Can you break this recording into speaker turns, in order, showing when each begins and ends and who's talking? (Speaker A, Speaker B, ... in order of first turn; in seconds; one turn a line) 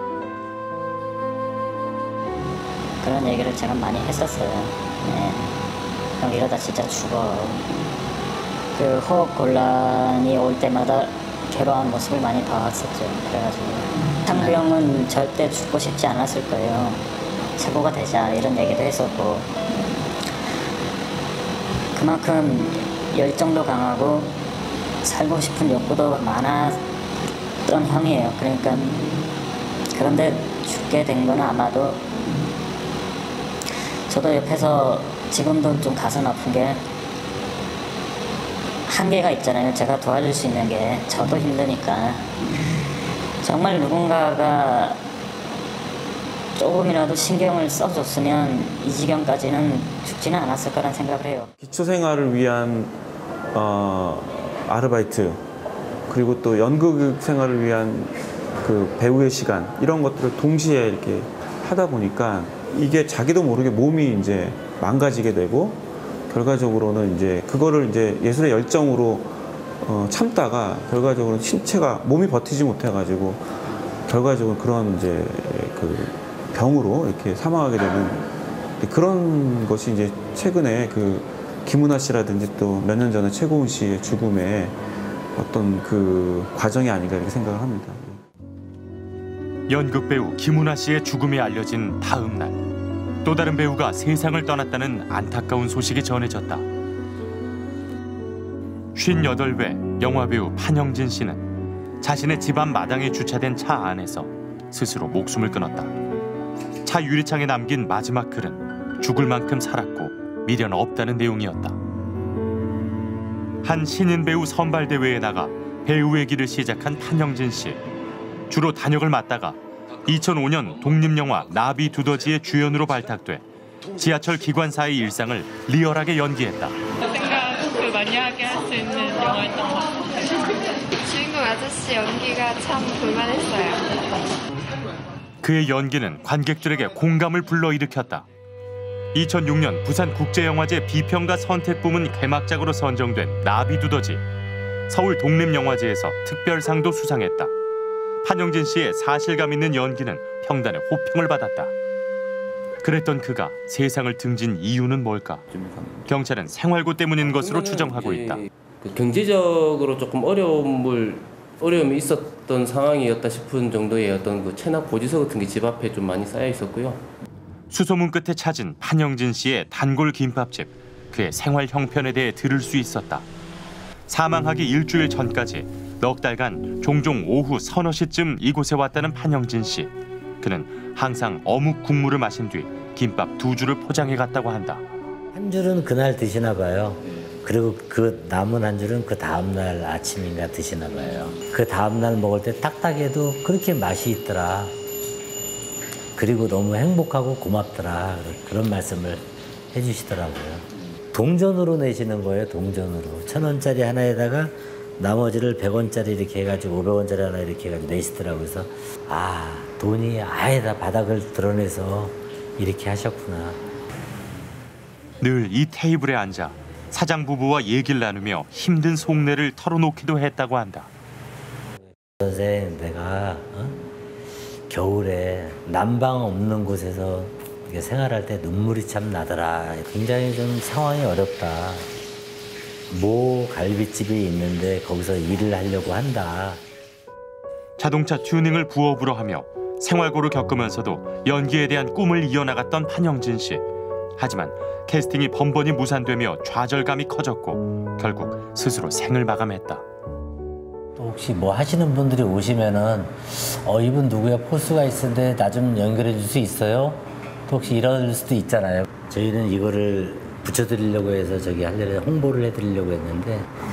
Speaker A: 3.0-5.6
Speaker A: 6.2-7.7
Speaker A: 8.7-17.0
Speaker A: 17.6-19.6
Speaker A: 21.9-24.4
Speaker A: 25.0-26.8
Speaker A: 27.6-29.0
Speaker A: 29.9-32.1
Speaker A: 34.1-36.9
Speaker A: 38.9-42.3
Speaker A: 43.4-45.0
Speaker A: 46.6-51.5
Speaker B: 51.6-53.0
Speaker B: 53.5-55.4
Speaker B: 56.1-73.5
Speaker B: 74.0-84.8
Speaker B: 85.3-88.2
Speaker C: 89.7-92.6
Speaker C: 93.2-96.7
Speaker C: 99.0-101.5
Speaker C: 102.0-105.9
Speaker C: 106.8-111.8
Speaker C: 113.6-117.8
Speaker C: 118.5-126.8
Speaker D: 127.1-129.9
Speaker D: 131.0-133.9
Speaker C: 135.4-138.3
Speaker C: 139.1-144.2
Speaker C: 144.9-147.5
Speaker C: 148.2-151.7
Speaker C: 152.8-155.5
Speaker C: 156.1-158.4
Speaker E: 157.3-167.1
Speaker C: 167.7-173.3
Speaker C: 174.1-184.8
Speaker F: 185.3-194.7
Speaker F: 196.2-213.6
Speaker C: 215.2-220.9
Speaker F: 222.2-223.8
Speaker F: 224.7-231.9
Speaker F: 232.9-236.6
Speaker C: 237.8-243.7
Speaker C: 244.2-249.8
Speaker F: 251.0-263.5